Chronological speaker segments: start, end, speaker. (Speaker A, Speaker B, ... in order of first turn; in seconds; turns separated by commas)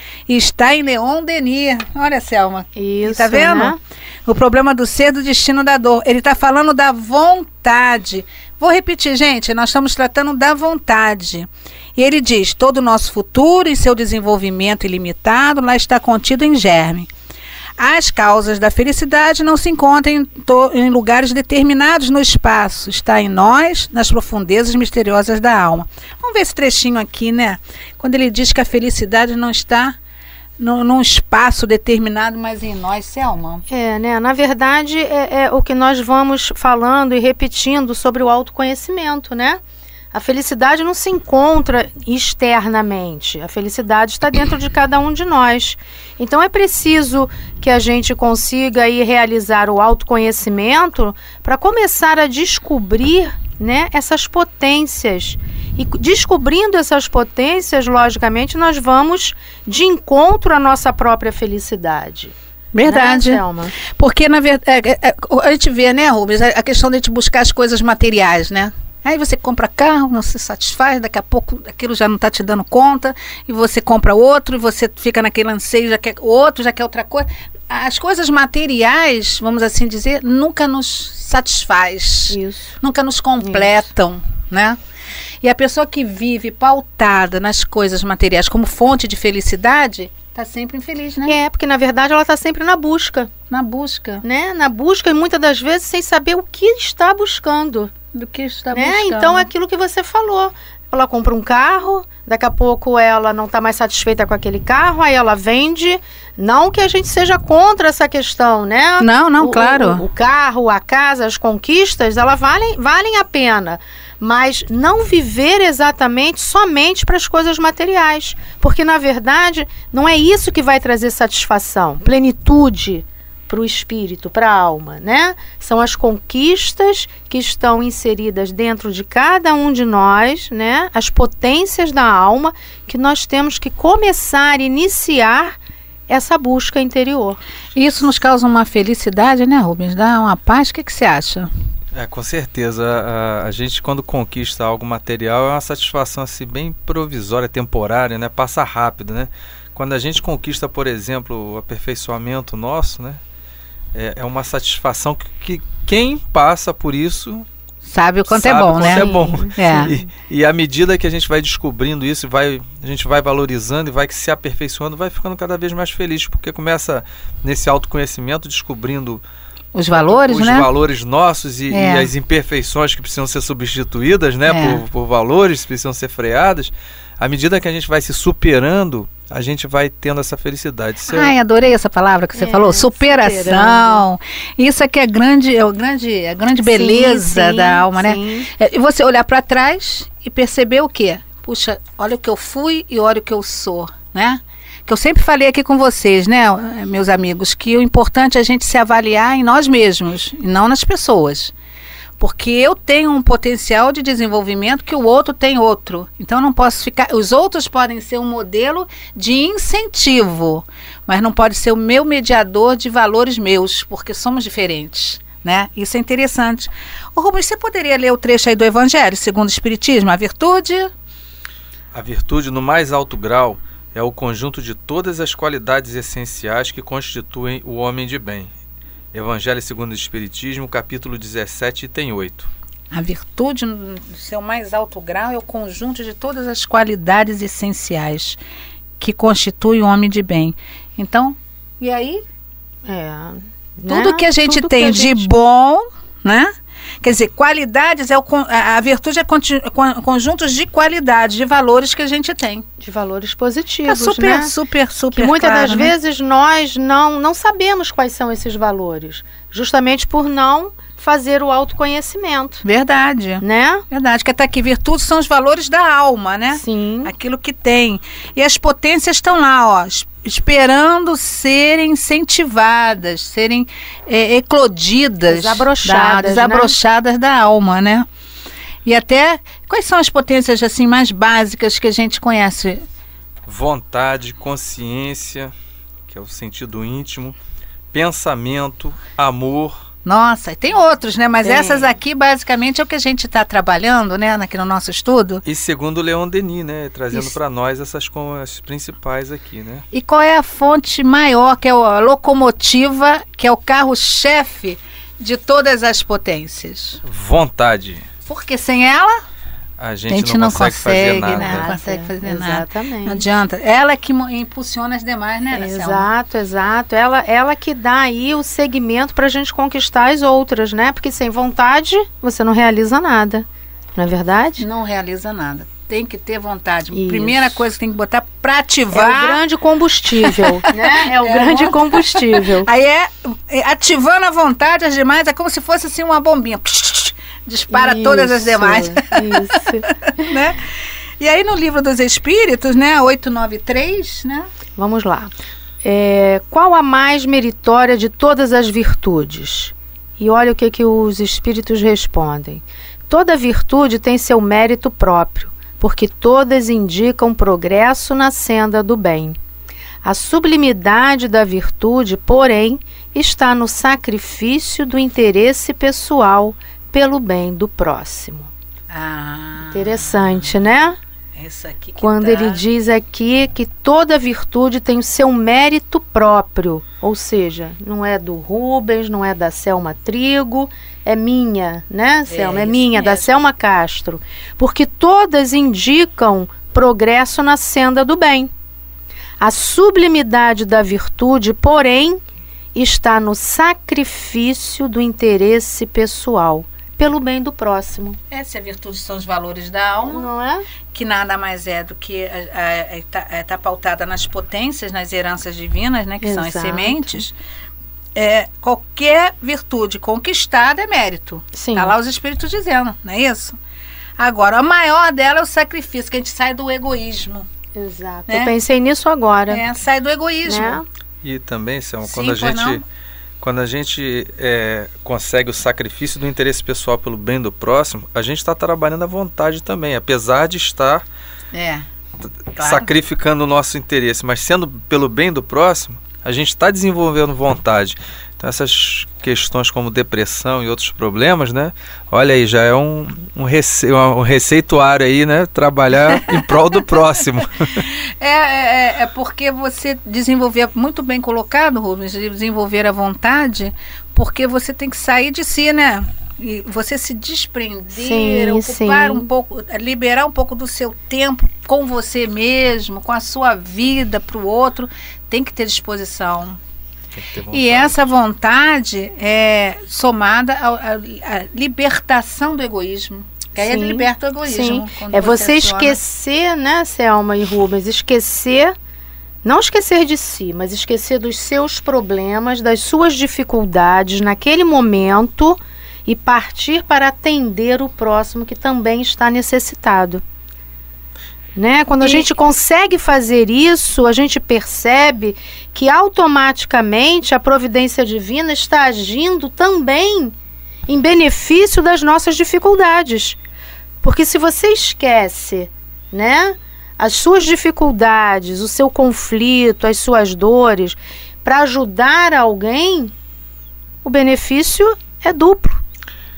Speaker A: 0.3-17.1, Speaker B: 2.7-3.8, Speaker A: 17.8-30.0, Speaker A: 30.6-33.6, Speaker B: 33.7-39.6, Speaker B: 40.1-62.3, Speaker A: 62.7-84.8, Speaker B: 62.8-63.7, Speaker B: 82.3-82.8, Speaker B: 83.4-83.7, Speaker A: 85.4-91.4, Speaker B: 91.2-93.3, Speaker A: 93.5-94.2, Speaker B: 94.2-97.9, Speaker A: 98.1-99.5, Speaker B: 98.7-135.5, Speaker A: 109.0-110.0, Speaker B: 136.1-137.4, Speaker A: 137.7-141.5, Speaker C: 141.9-153.2, Speaker C: 153.9-157.4, Speaker A: 157.8-159.9, Speaker C: 158.3-169.2, Speaker B: 158.8-160.1, Speaker A: 169.7-170.7, Speaker C: 169.9-181.3, Speaker A: 171.7-172.1, Speaker A: 174.5-174.8, Speaker A: 181.1-201.5, Speaker B: 182.3-184.0, Speaker B: 186.6-188.5, Speaker A: 202.2-220.9, Speaker C: 221.9-228.5, Speaker C: 229.1-232.5, Speaker A: 232.9-238.4, Speaker A: 239.0-242.2, Speaker B: 242.8-245.3, Speaker A: 243.9-246.5, Speaker A: 247.0-252.7, Speaker B: 252.8-254.5, Speaker A: 253.8-255.9, Speaker B: 255.1-262.6, Speaker A: 262.6-278.1, Speaker B: 263.4-263.8, Speaker B: 266.5-267.1, Speaker B: 275.3-276.7, Speaker A: 278.8-282.8, Speaker C: 283.4-285.5, Speaker C: 286.1-287.4, Speaker C: 287.9-289.9, Speaker A: 290.0-295.4, Speaker B: 291.4-291.9, Speaker C: 295.4-299.8, Speaker A: 299.9-307.0, Speaker C: 307.0-308.1, Speaker A: 308.2-309.1, Speaker C: 309.8-311.7, Speaker A: 310.1-316.1, Speaker B: 311.2-313.2, Speaker B: 315.5-324.6, Speaker A: 324.6-329.4, Speaker B: 326.9-327.6, Speaker B: 328.9-332.7, Speaker A: 330.2-340.6, Speaker B: 337.7-340.3, Speaker A: 341.2-344.4, Speaker B: 344.8-345.3, Speaker B: 345.8-359.4, Speaker B: 360.0-368.5, Speaker A: 368.9-370.6, Speaker B: 369.7-371.0, Speaker A: 371.3-372.6, Speaker B: 372.0-388.5, Speaker A: 382.3-383.3, Speaker B: 389.4-392.2, Speaker B: 392.7-398.2, Speaker A: 398.3-400.3, Speaker B: 400.1-400.6, Speaker A: 400.9-407.3, Speaker B: 406.2-407.2, Speaker A: 408.1-413.6, Speaker B: 411.5-411.9, Speaker A: 414.2-417.5, Speaker B: 417.7-419.6, Speaker A: 418.3-418.5, Speaker A: 419.5-420.8, Speaker B: 420.4-420.8, Speaker C: 421.2-422.8, Speaker A: 422.0-422.8, Speaker C: 423.4-431.0, Speaker A: 431.5-431.8, Speaker C: 432.5-447.9, Speaker A: 432.6-432.9, Speaker A: 447.7-466.6, Speaker B: 457.9-459.3, Speaker C: 467.1-468.0, Speaker A: 467.5-476.0, Speaker B: 473.6-478.7, Speaker B: 479.4-490.2, Speaker B: 491.6-500.3, Speaker A: 492.0-492.2, Speaker B: 500.9-503.4, Speaker B: 504.0-513.1, Speaker B: 514.0-515.8